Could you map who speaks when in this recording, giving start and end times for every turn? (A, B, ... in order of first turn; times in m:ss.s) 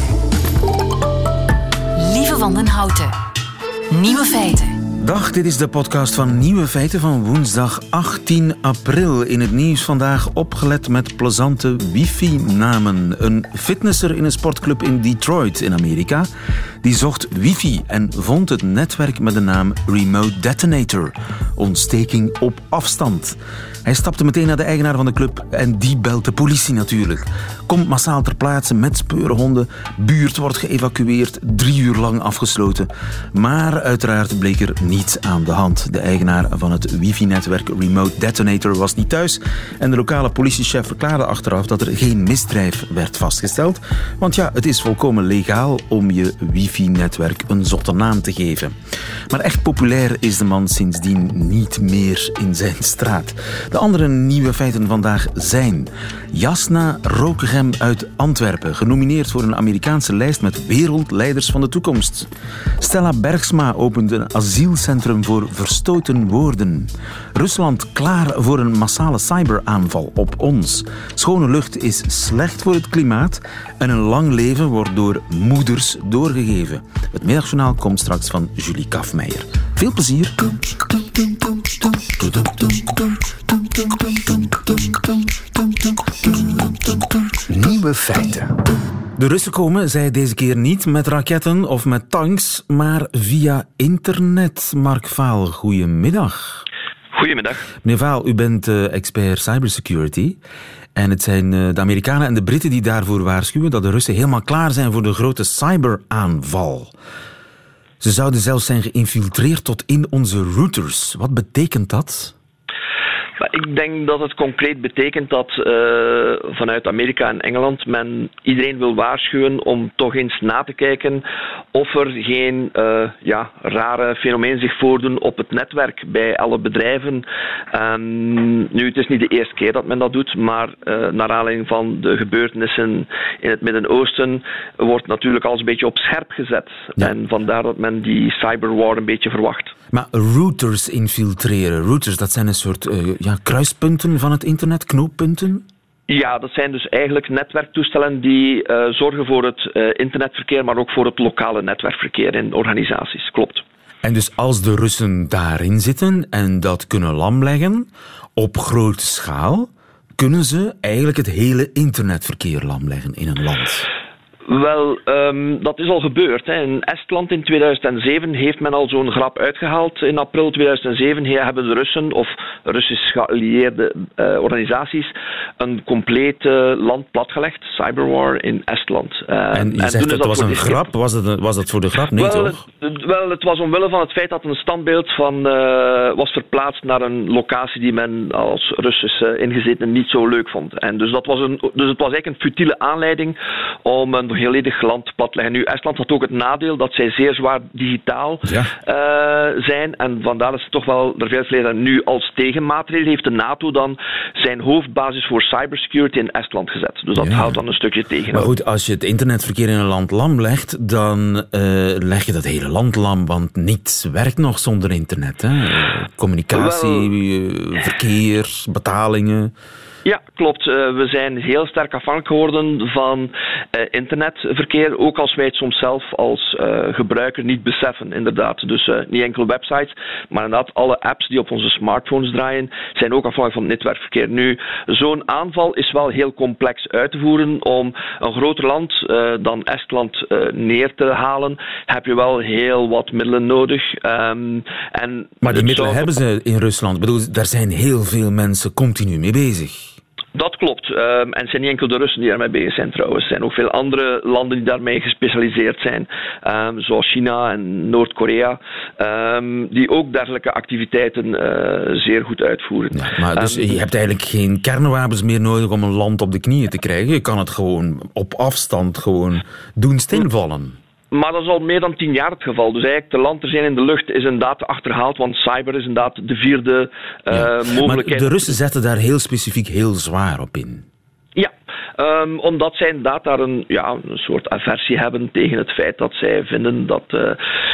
0:02.0-0:03.1 A
0:03.9-0:04.8 A
0:05.0-0:16.3 B
0:16.8-0:48.8 B
0:49.3-1:20.9 B
1:22.0-1:23.0 B
1:24.3-1:24.6 B
1:26.2-1:28.5 B
1:29.2-1:36.6 B
1:37.1-1:37.6 C
1:37.8-1:40.4 B
1:41.0-1:46.9 B
1:48.0-1:52.3 B
1:53.4-2:19.7 C
2:19.9-2:25.7 B
2:26.1-2:33.6 C
2:34.0-2:43.9 B
2:44.5-3:00.8 C
2:59.5-3:02.6 B
3:02.2-3:28.5 C
3:18.4-3:18.7 B
3:27.2-3:27.6 B
3:28.3-3:39.5 B
3:36.5-3:37.1 C
3:40.0-4:06.1 C
4:05.4-4:10.0 B
4:10.4-4:23.8 C
4:22.9-4:30.8 B
4:31.1-4:38.5 C
4:37.3-4:40.9 B
4:41.4-4:47.4 C